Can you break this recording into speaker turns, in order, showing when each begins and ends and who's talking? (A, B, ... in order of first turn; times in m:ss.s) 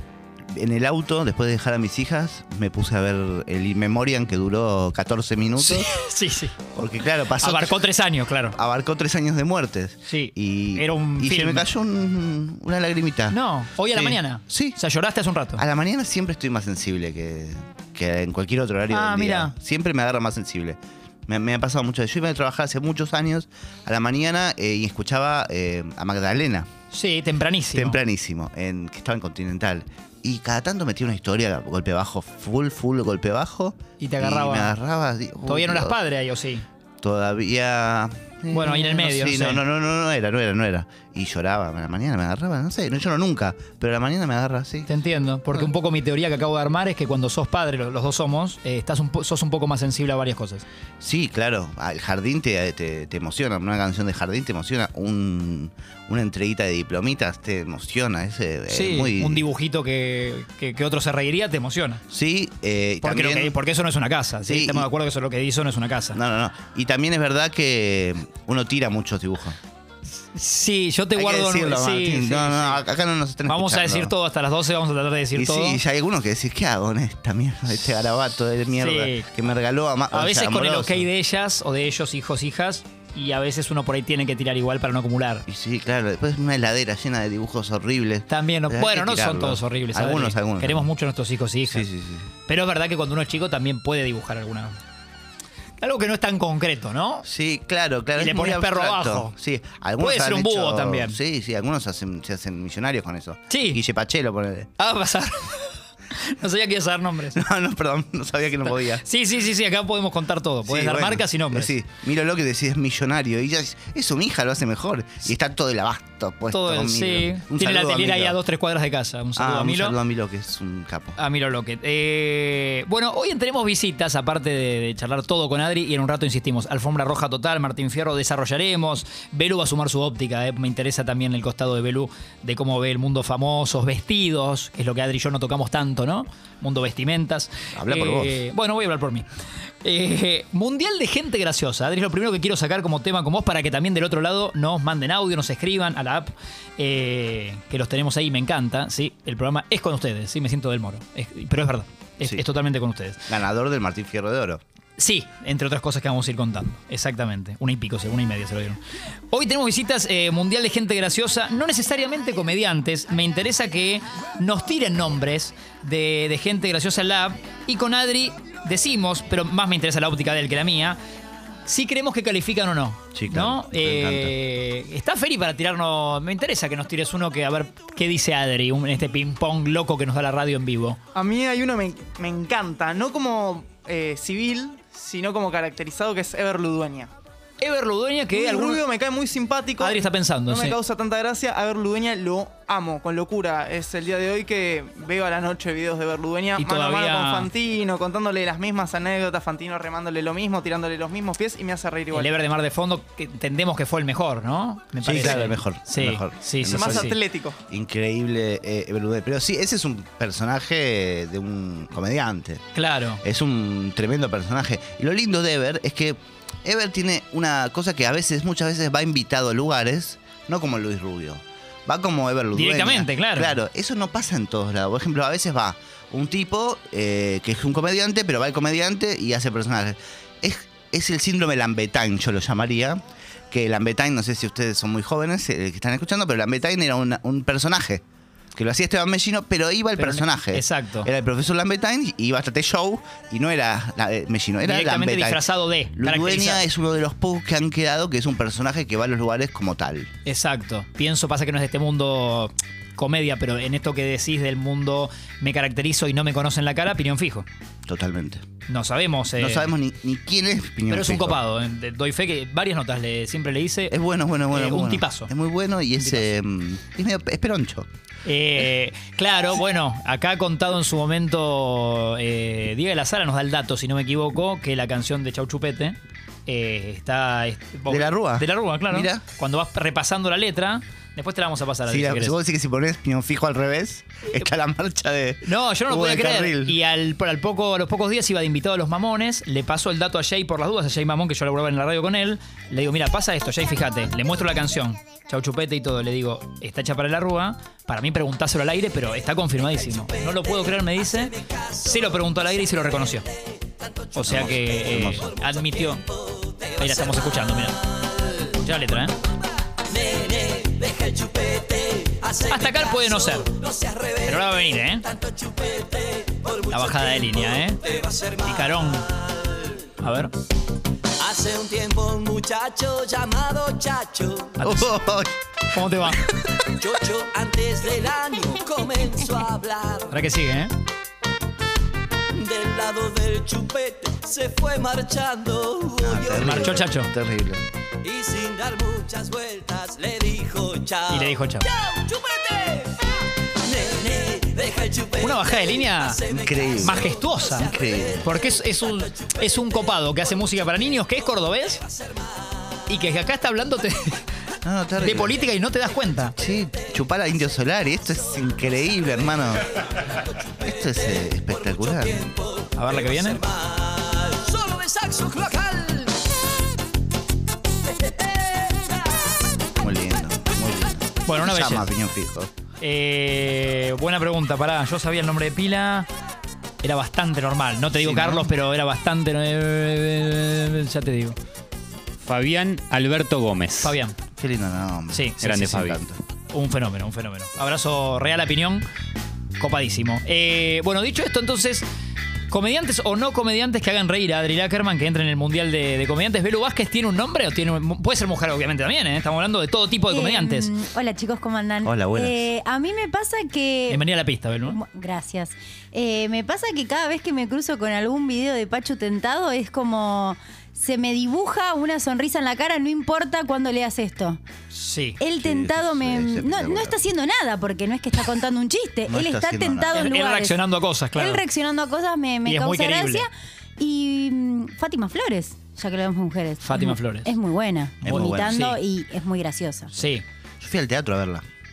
0:00.5-0:05.9 A
0:05.6-0:06.5 B
0:06.7-0:07.9 A
0:07.4-0:08.6 B
0:08.5-0:13.4 A
0:10.1-0:11.6 B
0:13.3-0:15.6 B
0:13.9-0:14.8 A
0:15.6-0:26.7 A
0:18.9-0:19.5 B
0:26.9-0:28.0 B
0:27.7-0:36.0 A
0:34.0-0:34.7 B
0:35.5-0:36.6 B
0:37.0-0:44.9 A
0:38.5-0:39.6 B
0:44.9-0:50.6 B
0:51.0-0:59.4 A
0:58.7-1:02.0 B
1:02.1-1:03.5 A
1:03.0-1:06.2 B
1:04.4-1:04.9 A
1:06.1-1:09.6 A
1:10.3-1:12.8 B
1:11.1-1:14.1 A
1:13.4-1:15.8 B
1:15.3-1:21.1 A
1:18.8-1:19.3 B
1:20.1-1:25.4 B
1:25.5-1:30.9 A
1:28.3-1:31.9 B
1:31.6-1:32.3 A
1:32.5-1:34.8 B
1:35.8-1:37.2 B
1:37.2-1:44.7 A
1:38.2-1:39.3 B
1:40.0-1:41.2 B
1:43.5-1:43.8 B
1:44.8-1:47.4 B
1:47.3-1:49.0 A
1:48.9-1:51.7 B
1:50.6-1:58.4 A
1:56.5-2:00.0 B
1:59.4-2:01.2 A
2:01.2-2:19.2 B
2:17.7-2:18.4 A
2:19.8-2:33.2 B
2:33.3-2:34.6 A
2:35.0-2:38.8 B
2:39.3-2:51.0 B
2:51.6-3:01.0 B
2:53.1-2:54.3 A
3:01.1-3:07.1 C
3:07.6-3:08.8 B
3:08.3-3:22.3 C
3:09.8-3:10.8 B
3:16.6-3:17.5 B
3:22.1-3:27.2 B
3:25.0-3:27.1 A
3:26.6-3:27.6 C
3:27.7-3:32.6 A
3:32.7-3:33.2 B
3:33.2-3:58.0 A
3:42.5-3:43.6 B
3:58.5-4:05.4 A
4:00.0-4:01.1 B
4:04.6-4:06.6 B
4:06.0-4:10.1 A
4:10.2-4:17.4 B
4:17.8-4:18.4 A
4:18.7-4:19.7 B
4:19.4-4:21.4 A
4:20.9-4:23.9 B
4:23.9-4:27.9 A
4:24.5-4:25.3 B
4:26.0-4:26.3 B
4:28.2-4:42.3 B
4:37.9-4:39.2 A
4:41.8-4:46.8 A
4:45.4-5:03.2 B
4:59.7-5:08.6 D
5:04.1-5:06.0 B
5:04.2-5:05.3 A
5:06.8-5:07.8 B
5:08.5-5:09.1 B
5:09.8-5:19.8 D
5:12.5-5:13.5 B
5:14.2-5:15.1 B
5:16.7-5:17.8 B
5:18.4-5:19.1 B
5:20.0-5:20.3 B
5:21.2-5:24.6 D
5:24.6-5:25.0 B
5:24.6-5:25.3 A
5:25.7-5:26.3 B
5:26.8-5:30.2 D
5:30.1-5:30.7 B
5:32.3-5:36.7 D
5:36.0-5:37.6 A
5:36.3-5:37.1 B
5:38.0-5:43.0 D
5:41.1-5:41.7 B
5:43.6-5:50.5 D
5:45.2-5:46.2 B
5:46.3-5:48.3 A
5:46.8-5:47.7 B
5:48.2-5:51.8 B
5:52.9-5:54.2 B
5:54.6-5:55.4 A
5:55.0-5:56.3 B
5:56.4-5:59.7 A
6:00.6-6:02.3 A
6:00.6-6:06.2 D
6:02.8-6:03.4 B
6:08.0-6:08.9 D
6:09.8-6:12.5 A
6:11.2-6:11.9 B
6:12.8-6:16.1 B
6:16.8-6:21.4 B
6:18.0-6:18.5 A
6:22.2-6:24.0 E
6:23.8-6:24.1 B
6:24.4-6:26.2 A
6:25.1-6:25.7 B
6:25.4-6:26.0 E
6:26.5-6:28.8 B
6:29.6-6:31.8 B
6:32.5-6:40.7 B
6:40.1-6:44.0 F
6:41.8-6:42.5 A
6:43.9-6:44.8 B
6:44.7-6:54.4 F
6:54.7-6:55.2 B
6:55.2-7:00.6 F
6:55.4-6:57.0 A
6:59.0-7:00.1 A
6:59.9-7:01.4 B
7:01.1-7:09.9 F
7:02.4-7:03.2 B
7:06.6-7:07.3 B
7:08.0-7:08.6 A
7:08.0-7:08.8 B
7:09.9-7:10.2 B
7:10.6-7:11.4 A